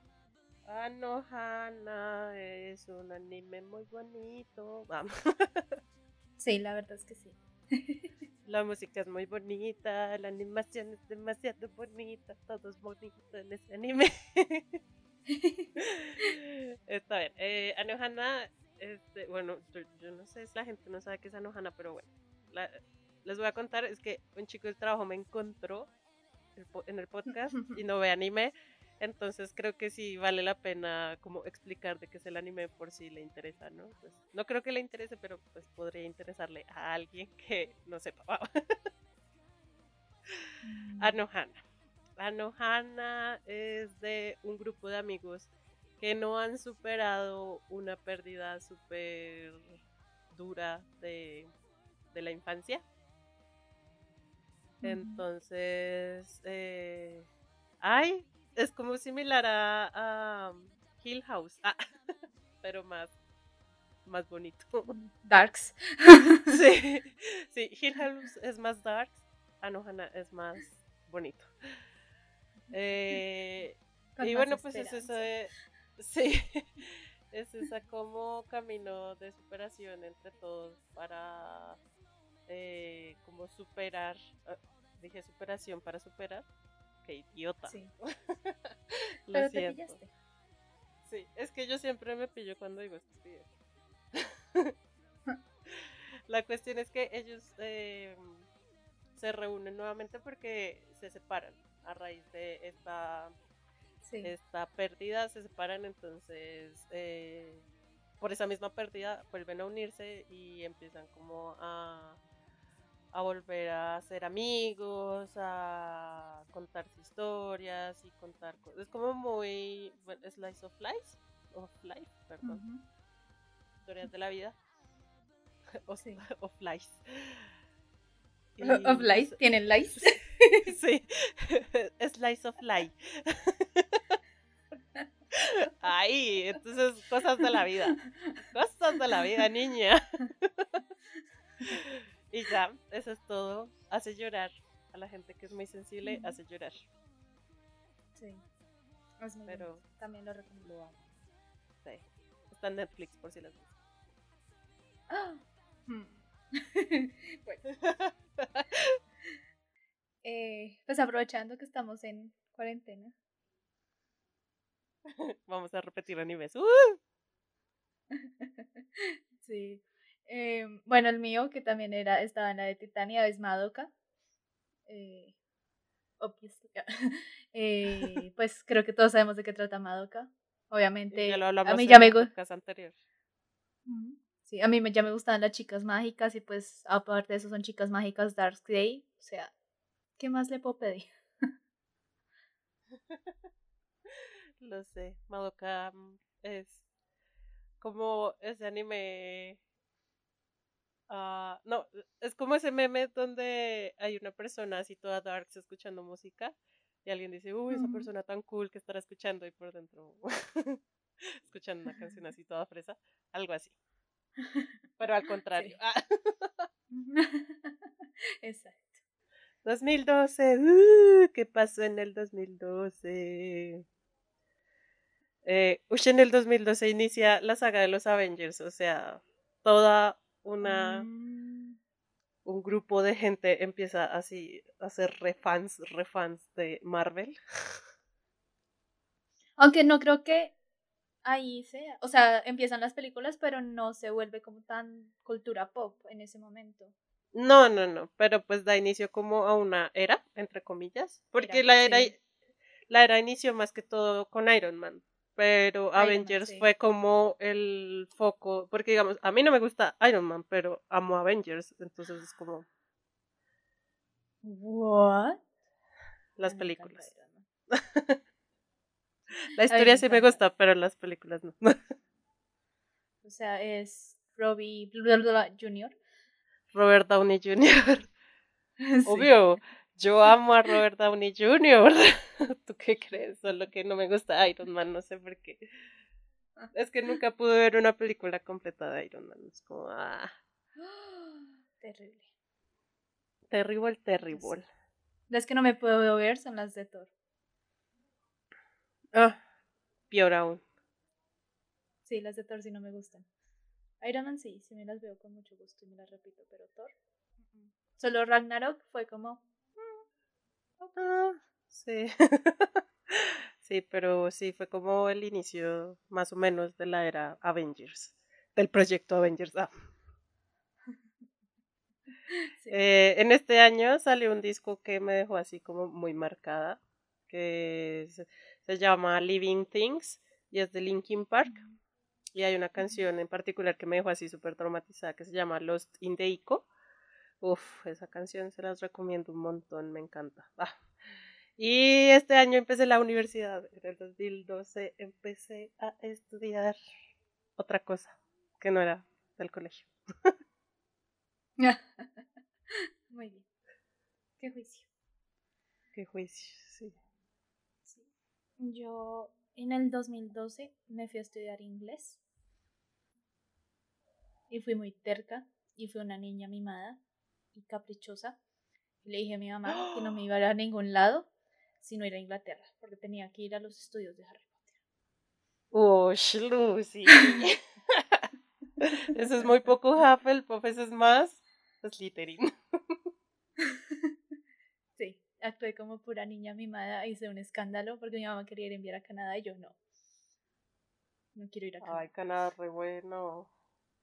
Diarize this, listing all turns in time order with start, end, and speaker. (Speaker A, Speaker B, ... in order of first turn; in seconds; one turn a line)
Speaker A: 0.7-5.8
Speaker B: 6.4-8.0
Speaker A: 8.4-14.8
Speaker B: 15.3-15.7
Speaker A: 15.8-25.9
Speaker A: 26.5-38.9
Speaker B: 27.5-27.8
Speaker B: 40.6-41.2
Speaker A: 41.0-41.6
Speaker A: 42.2-49.8
Speaker A: 50.3-51.5
Speaker A: 52.1-52.8
Speaker A: 54.8-57.3
Speaker B: 54.8-55.2
Speaker A: 57.8-61.8
Speaker A: 62.6-63.1
Speaker A: 64.0-64.9
Speaker B: 64.9-66.5
Speaker A: 66.5-71.5
Speaker A: 72.7-81.8
Speaker B: 74.2-75.3
Speaker A: 82.5-86.4
Speaker A: 87.0-90.0
Speaker B: 87.7-87.9
Speaker B: 89.3-90.1
Speaker A: 91.0-93.5
Speaker A: 94.1-94.7
Speaker A: 95.7-98.4
Speaker A: 99.1-103.3
Speaker B: 104.0-104.3
Speaker A: 104.2-107.6
Speaker A: 108.2-112.2
Speaker A: 113.1-122.6
Speaker B: 122.4-122.8
Speaker A: 123.8-124.6
Speaker A: 125.7-127.5
Speaker B: 126.0-126.3
Speaker A: 128.6-129.4
Speaker B: 128.6-130.7
Speaker A: 130.7-134.0
Speaker A: 135.3-140.6
Speaker A: 141.6-146.9
Speaker B: 146.0-146.4
Speaker B: 148.2-148.4
Speaker B: 149.2-150.9
Speaker A: 149.5-149.8
Speaker A: 151.8-153.7
Speaker B: 155.1-157.6
Speaker A: 157.7-159.0
Speaker B: 160.2-163.1
Speaker A: 165.1-167.0
Speaker B: 168.2-168.6
Speaker B: 169.4-173.9
Speaker B: 174.9-175.3
Speaker B: 176.2-182.3
Speaker A: 181.1-183.0
Speaker B: 183.9-189.5
Speaker B: 190.2-191.1
Speaker A: 194.6-196.8
Speaker A: 197.8-199.6
Speaker A: 201.1-206.5
Speaker A: 207.0-213.8
Speaker B: 207.7-208.1
Speaker B: 214.4-214.7
Speaker A: 215.0-216.7
Speaker B: 216.9-217.9
Speaker B: 218.4-219.0
Speaker A: 219.6-223.8
Speaker A: 225.4-231.1
Speaker B: 230.6-231.8
Speaker A: 232.4-237.4
Speaker B: 239.6-240.5
Speaker B: 241.2-246.9
Speaker A: 247.3-252.2
Speaker B: 251.4-252.1
Speaker A: 252.9-262.6
Speaker B: 255.9-256.7
Speaker B: 264.4-265.4
Speaker A: 266.4-267.1
Speaker B: 266.4-267.4
Speaker A: 267.7-268.2
Speaker A: 269.5-271.8
Speaker B: 269.7-270.4
Speaker B: 273.2-275.9
Speaker A: 276.7-278.1
Speaker B: 278.8-279.3
Speaker A: 279.1-285.6
Speaker A: 286.7-290.3
Speaker B: 290.8-292.2
Speaker A: 293.5-294.6
Speaker B: 295.3-297.1
Speaker A: 299.1-299.4
Speaker A: 300.1-300.6
Speaker B: 302.1-303.2
Speaker B: 304.0-306.9
Speaker B: 307.5-310.0
Speaker B: 310.8-311.1
Speaker A: 311.0-319.7
Speaker B: 322.3-322.8
Speaker A: 322.7-331.6
Speaker A: 332.3-336.7
Speaker A: 337.4-340.8
Speaker A: 341.6-346.8
Speaker A: 347.6-350.3
Speaker B: 351.6-352.1
Speaker B: 353.1-353.4
Speaker B: 354.4-354.9
Speaker A: 355.9-356.9
Speaker B: 358.6-362.2
Speaker B: 364.5-367.0
Speaker B: 367.5-368.4
Speaker B: 369.0-371.3
Speaker A: 369.7-370.2
Speaker B: 371.8-374.7
Speaker A: 375.7-378.2
Speaker A: 378.8-382.9
Speaker B: 385.0-389.8
Speaker B: 391.3-392.1
Speaker A: 391.8-393.5